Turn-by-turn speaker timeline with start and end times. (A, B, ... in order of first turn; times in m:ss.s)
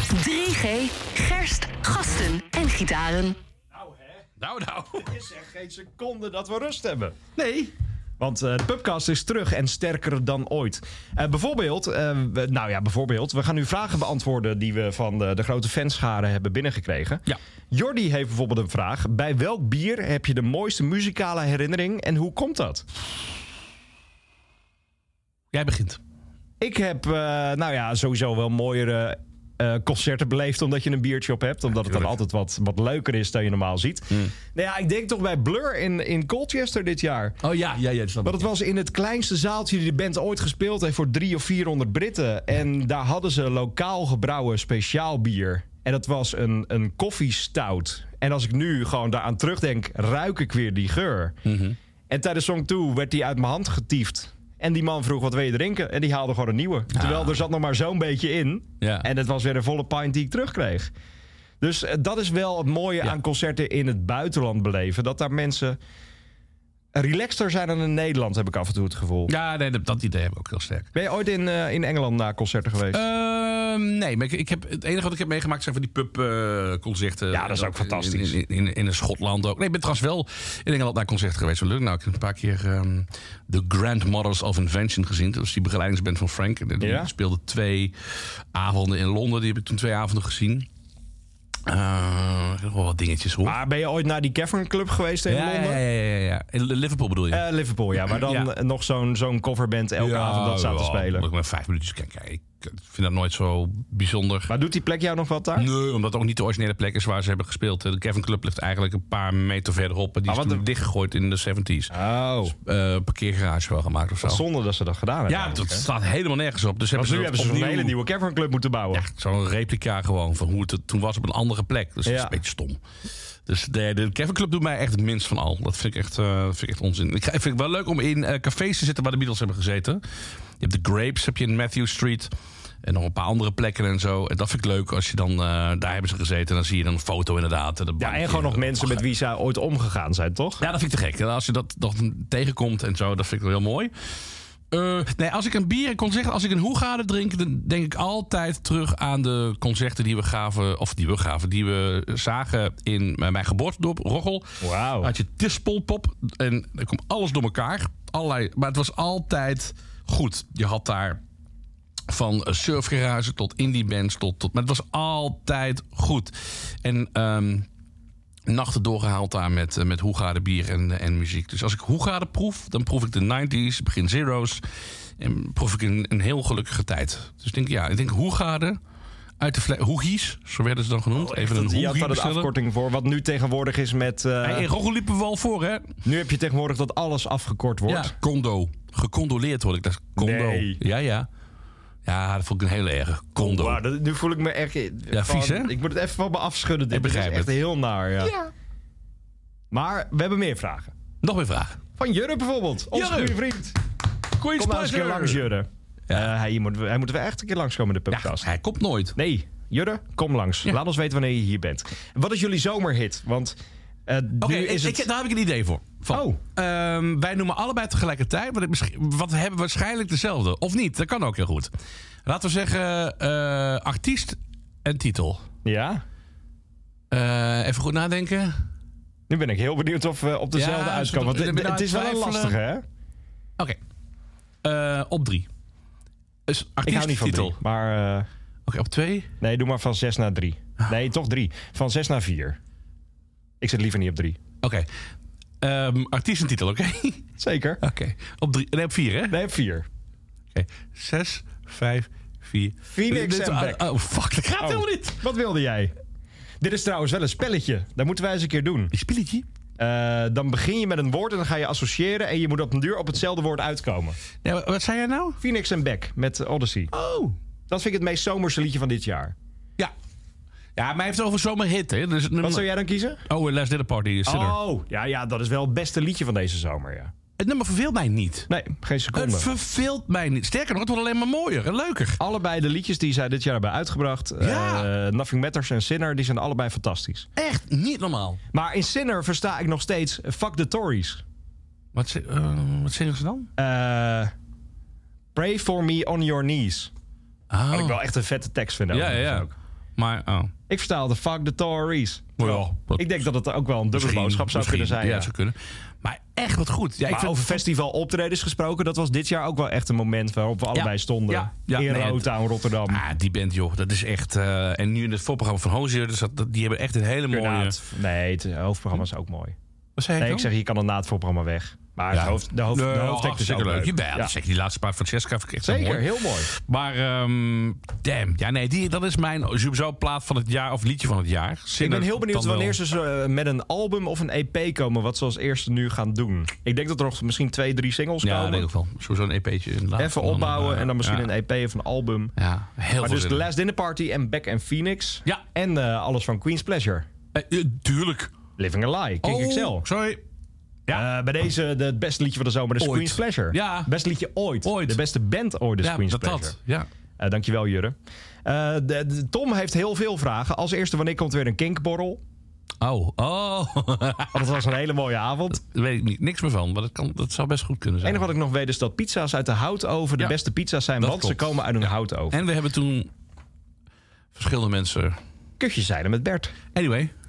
0:00.1-0:03.4 A
0:04.4-0:05.1 B
0:05.0-0:07.2 C
0:07.4-0:07.7 B
0:08.2-0:22.8 C
0:25.5-0:26.0 B
0:26.6-0:37.4 C
0:37.4-0:38.5 B
0:38.2-0:51.4 C
0:51.4-0:51.8 B
0:52.1-1:00.9 C
0:56.9-0:57.4 B
0:58.8-0:59.1 B
1:01.6-1:05.8 C
1:07.0-1:09.3 C
1:09.3-1:10.9 B
1:11.0-1:13.0 C
1:12.9-1:27.9 B
1:17.3-1:18.4 C
1:26.8-1:27.1 C
1:28.5-1:30.7 B
1:31.7-1:33.6 B
1:33.4-1:35.8 C
1:35.3-1:37.4 B
1:37.3-1:41.3 C
1:38.1-1:38.5 B
1:40.0-1:44.5 B
1:44.5-1:45.7 C
1:45.6-1:51.9 B
1:50.3-1:50.6 C
1:51.9-1:52.6 C
1:52.6-1:54.4 B
1:54.2-1:55.9 C
1:55.3-1:57.9 B
1:57.0-1:59.1 C
1:58.9-2:02.8 B
2:02.1-2:02.4 C
2:03.5-2:10.0 B
2:10.6-2:12.3 B
2:12.8-2:19.0 B
2:18.0-2:20.6 C
2:20.6-2:23.9 B
2:24.7-2:34.5 B
2:34.6-2:35.1 C
2:35.0-2:41.2 B
2:42.1-2:47.7 B
2:48.5-2:54.6 B
2:55.2-2:58.8 B
2:59.4-3:02.5 B
3:01.2-3:04.7 C
3:04.4-3:05.9 B
3:06.0-3:08.1 C
3:07.9-3:11.3 B
3:10.2-3:10.8 C
3:12.0-3:13.8 B
3:13.4-3:18.5 C
3:15.1-3:15.7 B
3:16.9-3:17.5 B
3:19.7-3:20.9 C
3:21.2-3:21.8 B
3:22.0-3:23.8 C
3:22.9-3:23.4 B
3:24.4-3:25.5 B
3:24.6-3:28.5 C
3:28.1-3:29.1 B
3:29.2-3:35.1 C
3:34.4-3:41.7 B
3:36.1-3:36.4 C
3:42.3-3:45.4 B
3:45.6-3:46.0 C
3:47.1-3:48.5 B
3:49.3-3:52.8 C
3:50.6-3:52.6 B
3:54.6-3:55.5 B
3:56.5-3:57.6 B
3:56.8-3:58.3 C
3:58.7-3:59.3 B
3:59.4-4:02.6 C
4:03.6-4:04.4 C
4:04.6-4:04.9 B
4:05.6-4:07.2 B
4:07.4-4:07.8 C
4:07.8-4:09.4 B
4:09.3-4:09.9 C
4:10.5-4:15.2 B
4:13.0-4:13.9 C
4:14.6-4:15.9 C
4:16.6-4:18.9 C
4:18.9-4:19.4 B
4:19.8-4:24.2 C
4:24.4-4:25.4 B
4:25.4-4:26.9 C
4:26.9-4:27.4 B
4:27.7-4:29.3 C
4:30.8-4:32.7 B
4:32.4-4:33.2 C
4:33.3-4:34.6 B
4:34.3-4:37.1 C
4:37.4-4:38.5 B
4:38.5-4:39.5 C
4:39.1-4:42.2 B
4:42.2-4:47.3 C
4:44.4-4:44.9 B
4:47.4-4:48.4 B
4:48.5-4:51.2 C
4:51.9-4:53.5 B
4:53.6-4:54.3 C
4:55.4-4:56.9 C
4:57.5-4:58.0 B
4:57.7-4:59.5 C
4:58.9-5:00.5 B
5:00.7-5:05.3 C
5:02.4-5:03.1 B
5:03.9-5:07.6 B
5:07.1-5:13.0 C
5:10.7-5:12.3 B
5:12.9-5:17.8 B
5:17.3-5:19.6 C
5:20.0-5:20.5 B
5:20.2-5:24.3 C
5:22.1-5:32.8 B
5:25.6-5:26.5 C
5:31.8-5:38.7 C
5:38.2-5:41.3 B
5:40.0-5:42.3 C
5:42.4-5:43.5 B
5:43.0-5:47.1 C
5:47.4-5:48.3 B
5:48.6-5:49.9 C
5:49.2-5:50.2 B
5:50.9-5:56.6 C
5:52.8-5:53.9 B
5:54.6-5:55.0 B
5:55.8-5:56.9 B
5:57.2-6:02.2 C
6:02.8-6:04.5 B
6:04.3-6:05.6 C
6:05.6-6:08.3 B
6:08.0-6:12.4 C
6:11.0-6:13.1 B
6:14.4-6:15.2 B
6:15.6-6:16.5 C
6:16.7-6:17.1 B